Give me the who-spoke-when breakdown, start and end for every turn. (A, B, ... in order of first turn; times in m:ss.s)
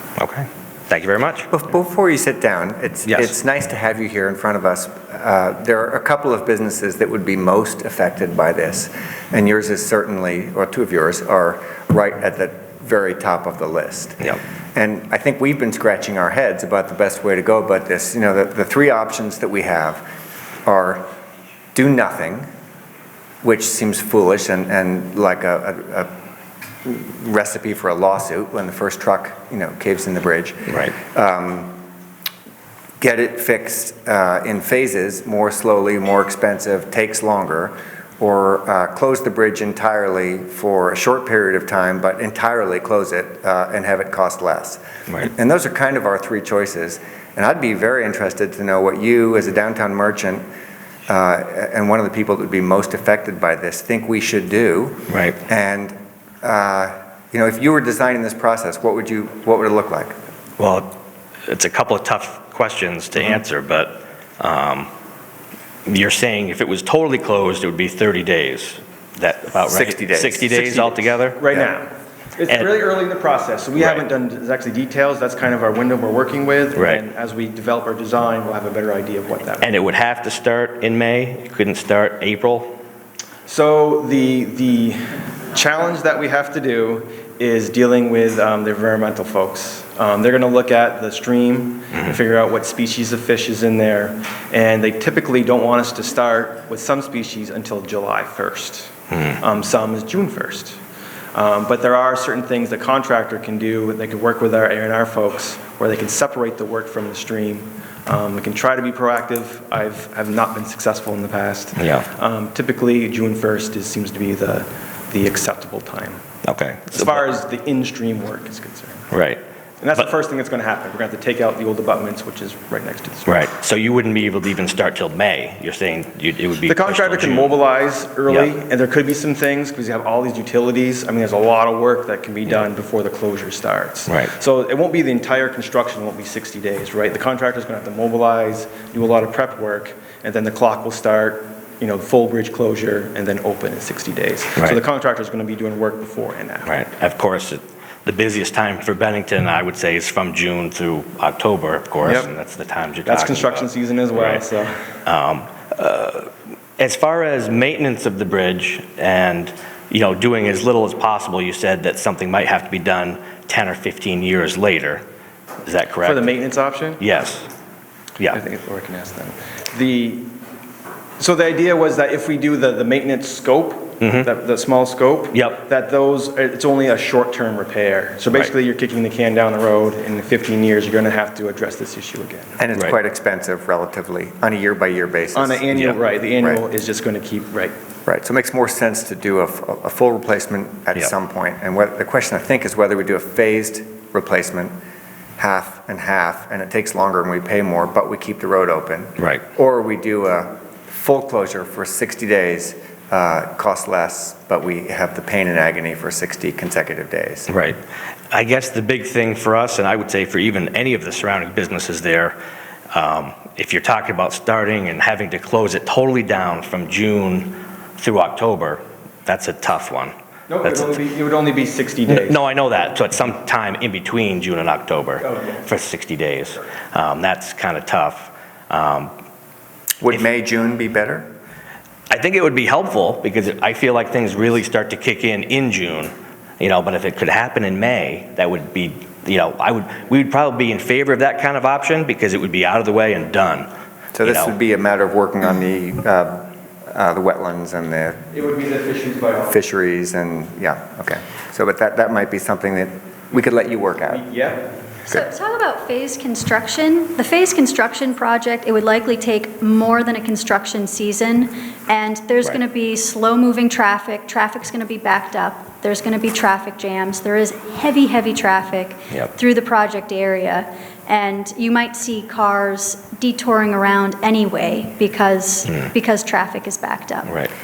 0:00.2-0:01.5 A
0:01.5-0:20.0 B
0:03.1-0:03.3 A
0:20.6-0:21.1 B
0:21.7-0:22.4 B
0:23.4-0:26.1 B
0:26.8-0:31.8 B
0:30.7-0:30.9 A
0:33.0-0:50.4 B
0:51.1-1:00.1 B
0:55.1-0:55.4 A
1:00.6-1:00.9 A
1:01.5-1:04.9 A
1:05.9-1:11.5 A
1:09.7-1:10.5 B
1:10.5-1:19.7 C
1:13.8-1:14.0 A
1:16.8-1:17.0 A
1:19.6-1:22.7 A
1:23.4-1:40.8 C
1:41.3-1:56.2 C
1:51.8-1:52.0 A
1:56.4-1:57.2 A
1:56.9-1:59.1 C
1:59.1-1:59.4 A
1:59.8-2:03.4 C
2:03.2-2:07.6 A
2:06.6-2:26.7 C
2:26.6-2:34.4 A
2:32.0-2:32.3 C
2:33.0-2:34.8 C
2:35.0-2:45.0 A
2:45.6-2:46.2 A
2:46.0-2:47.0 C
2:47.0-2:47.5 A
2:48.3-2:50.3 C
2:51.2-3:02.6 C
2:54.0-2:54.3 A
2:55.3-2:55.6 A
3:02.6-3:05.6 B
3:05.3-3:07.7 C
3:08.0-3:14.7 B
3:15.4-3:27.5 B
3:19.2-3:19.4 A
3:27.5-3:27.8 A
3:28.3-3:32.4 A
3:32.9-3:40.9 A
3:40.5-3:42.4 C
3:42.1-3:49.1 A
3:45.2-3:45.6 C
3:50.0-3:51.3 B
3:52.1-4:03.7 A
4:04.1-4:08.2 B
4:04.2-4:04.5 A
4:08.3-4:09.6 C
4:09.5-4:14.2 B
4:14.1-4:14.8 C
4:15.1-4:37.4 D
4:37.2-4:37.5 A